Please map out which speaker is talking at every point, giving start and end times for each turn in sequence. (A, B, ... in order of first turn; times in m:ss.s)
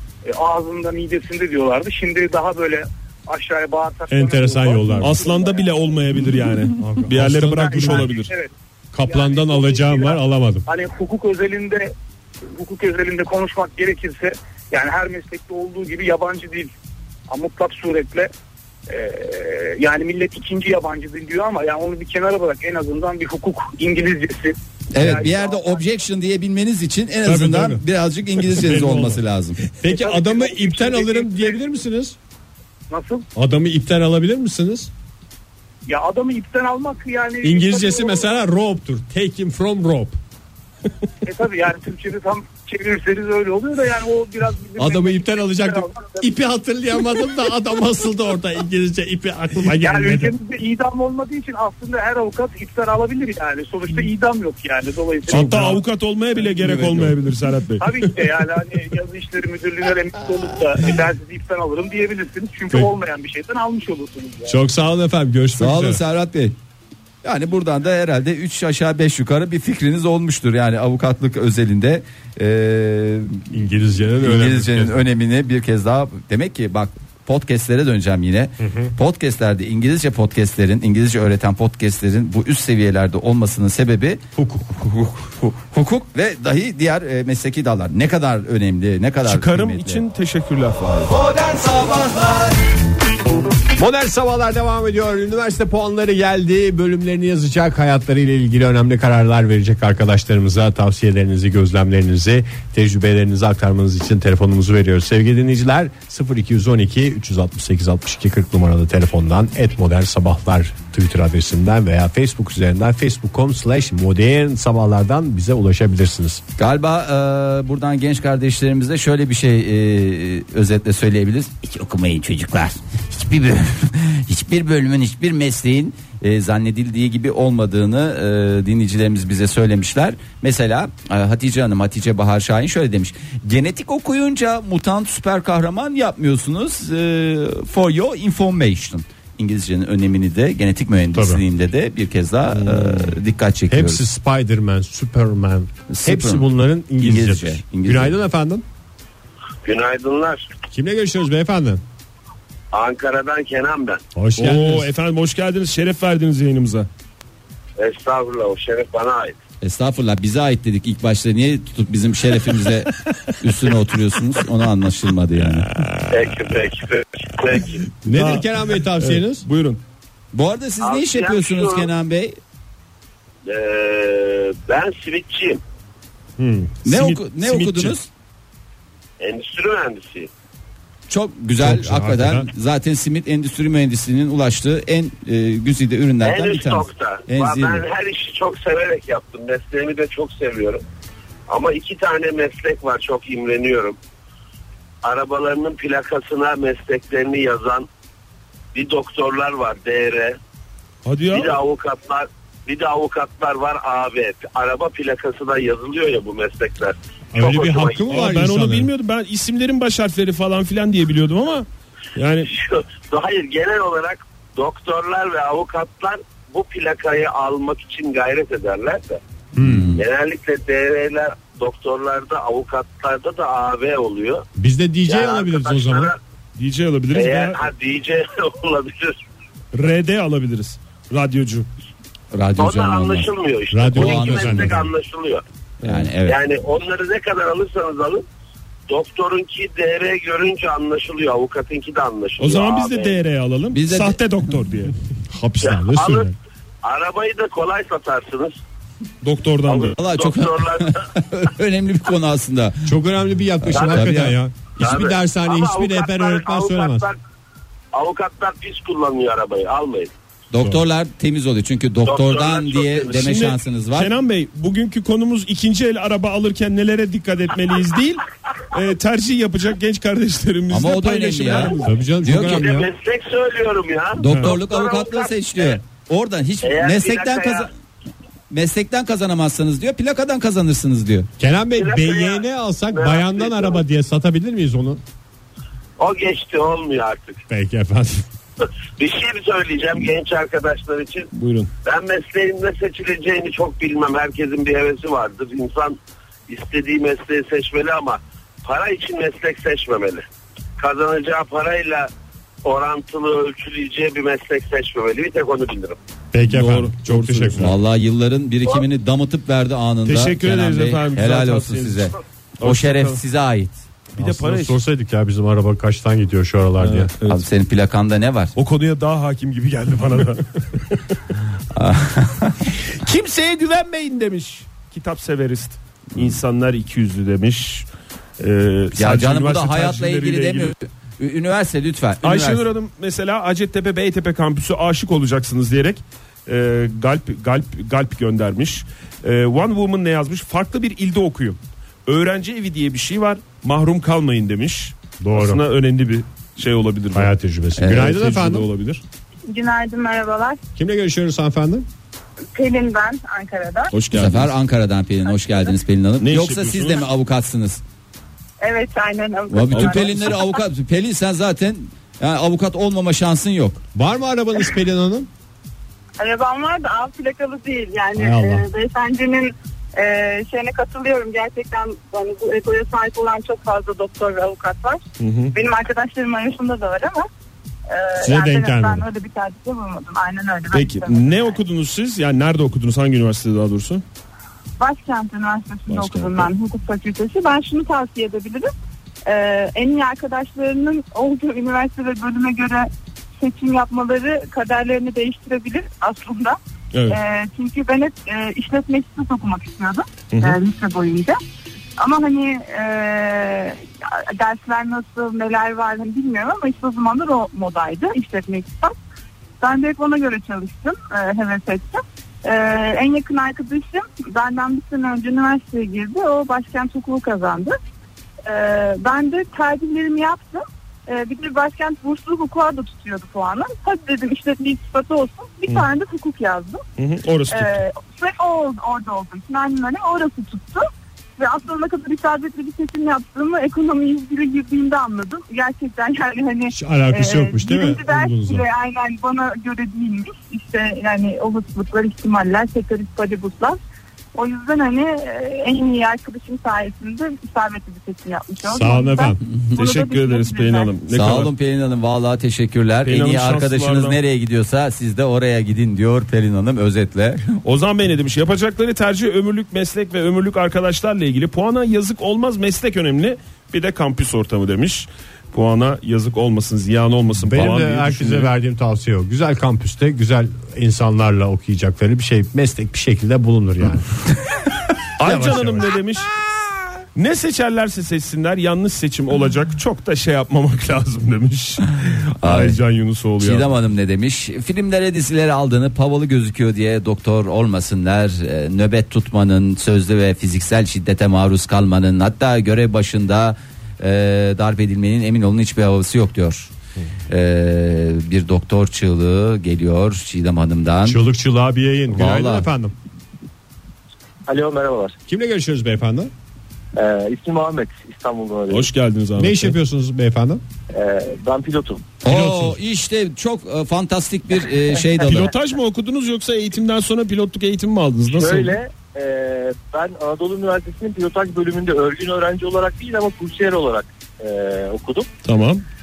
0:00.2-0:05.9 A
0:04.1-0:05.2 B
0:05.0-0:08.3 C
0:06.8-0:08.1 B
0:07.5-0:08.5 A
0:08.9-0:10.7 B
0:09.1-0:11.9 A
0:12.6-0:16.7 A
0:17.3-0:18.3 A
0:18.9-0:25.8 A
0:24.9-0:29.6 D
0:27.2-0:27.8 B
0:28.4-0:29.2 B
0:29.8-0:32.2 B
0:29.9-0:31.6 A
0:32.9-0:33.2 A
0:33.4-0:34.9 B
0:35.9-0:38.3 A
0:37.4-0:40.2 B
0:41.2-0:46.3 A
0:44.8-0:50.3 B
0:49.7-0:55.8 A
0:55.3-0:58.2 C
0:55.3-0:55.8 B
0:56.6-0:57.1 B
0:57.8-1:04.6 A
1:04.5-1:06.0 B
1:05.6-1:06.6 D
1:07.2-1:13.5 D
1:13.5-1:15.0 B
1:14.2-1:24.2 D
1:18.6-1:18.9 B
1:24.4-1:24.8 B
1:24.8-1:30.0 D
1:29.2-1:31.1 C
1:31.1-1:32.5 D
1:33.8-1:56.4 B
1:56.6-2:24.0 D
2:21.1-2:21.4 B
2:22.6-2:23.2 C
2:23.7-2:28.6 B
2:25.9-2:28.2 D
2:29.6-2:30.5 E
2:30.7-2:31.8 B
2:32.7-2:34.0 E
2:34.2-2:34.9 B
2:34.4-2:36.9 C
2:37.8-2:39.4 E
2:39.6-2:45.7 D
2:46.1-2:47.8 E
2:48.0-2:49.5 B
2:48.1-2:49.8 C
2:50.3-2:52.4 D
2:50.8-2:51.9 E
2:53.5-2:55.6 E
2:56.4-2:56.8 B
2:56.8-2:58.1 D
2:56.9-2:58.0 C
2:59.2-3:00.3 E
3:01.1-3:07.8 D
3:01.6-3:02.5 B
3:06.2-3:10.8 E
3:11.5-3:14.0 E
3:15.0-3:17.9 E
3:18.7-3:20.4 E
3:21.0-3:21.6 C
3:21.3-3:28.1 E
3:27.3-3:28.9 B
3:28.1-3:32.5 C
3:32.5-3:39.2 E
3:39.6-3:39.9 B
3:39.6-3:40.0 D
3:39.9-3:44.4 E
3:44.6-3:46.1 B
3:45.1-3:46.2 E
3:46.6-3:47.7 C
3:47.1-3:49.2 E
3:49.7-3:51.7 C
3:52.3-3:53.3 D
3:52.6-3:55.4 E
3:53.7-3:54.9 B
3:53.9-3:54.8 D
3:55.8-3:56.4 D
3:56.2-3:58.2 E
3:58.9-4:03.2 E
4:02.4-4:04.9 C
4:03.7-4:04.2 D
4:05.3-4:06.4 B
4:05.6-4:06.3 E
4:06.8-4:08.6 E
4:09.2-4:10.0 C
4:09.7-4:11.0 E
4:10.0-4:12.9 D
4:12.9-4:17.1 B
4:13.6-4:14.4 D
4:13.7-4:17.2 E
4:17.9-4:20.1 E
4:20.5-4:24.1 D
4:22.0-4:23.3 E
4:23.1-4:32.0 C
4:30.7-4:32.7 D
4:31.8-4:32.9 B
4:32.3-4:35.8 E
4:34.2-4:37.7 D
4:34.3-4:34.6 C
4:36.6-4:37.7 E
4:38.5-4:41.3 D
4:41.4-4:45.0 B
4:41.8-4:43.8 E
4:46.0-4:47.4 E
4:47.5-4:48.3 B
4:49.0-4:51.3 E
4:51.3-4:51.7 C
4:51.8-5:00.3 E
5:00.8-5:02.1 E
5:02.6-5:06.0 E
5:06.3-5:07.8 B
5:06.5-5:07.7 C
5:07.6-5:13.8 D
5:10.1-5:13.2 C
5:14.2-5:17.1 B
5:14.2-5:14.8 C
5:16.8-5:17.4 C
5:17.3-5:18.5 D
5:18.6-5:21.0 C
5:21.7-5:22.7 D
5:23.0-5:27.9 C
5:28.4-5:30.7 C
5:29.0-5:32.6 D
5:32.2-5:47.3 C
5:45.2-5:45.6 B
5:47.1-5:48.7 B
5:47.8-5:48.0 D
5:47.8-5:49.0 C
5:49.5-5:50.6 F
5:50.8-5:51.9 B
5:52.6-5:53.9 F
5:53.9-5:54.5 C
5:54.1-5:57.8 D
5:55.3-5:55.7 F
5:56.2-5:57.1 C
5:58.6-6:00.6 F
5:59.5-6:03.8 D
5:59.7-6:00.3 C
6:03.9-6:05.3 B
6:06.2-6:17.3 F
6:08.2-6:08.7 B
6:15.2-6:15.5 C
6:17.9-6:21.6 F
6:18.2-6:19.1 B
6:20.7-6:24.0 C
6:24.8-6:28.7 F
6:25.9-6:26.5 C
6:29.2-6:41.4 F
6:36.9-6:37.2 C
6:40.3-6:40.6 C
6:42.0-6:49.0 F
6:49.6-6:57.8 F
6:58.4-7:06.8 F
7:07.0-7:07.8 C
7:07.5-7:10.9 F
7:11.4-7:23.8 F
7:16.7-7:18.7 B
7:24.4-7:30.9 F
7:28.6-7:29.4 B
7:29.8-7:31.5 C
7:31.1-7:37.5 D
7:33.1-7:34.2 C
7:37.6-7:48.5 C
7:47.4-7:54.1 B
7:55.2-7:56.3 C
7:55.2-7:55.9 B
7:57.2-8:03.8 C
8:02.4-8:02.8 D
8:03.4-8:16.7 D
8:17.3-8:21.2 D
8:21.1-8:22.9 B
8:22.1-8:22.7 D
8:24.5-8:25.2 G
8:25.3-8:26.3 B
8:27.0-8:28.9 G
8:28.7-8:29.8 C
8:29.4-8:30.6 B
8:30.9-8:32.1 G
8:32.2-8:35.5 D
8:32.3-8:32.8 B
8:35.2-8:38.8 C
8:38.3-8:45.3 G
8:45.4-8:45.8 C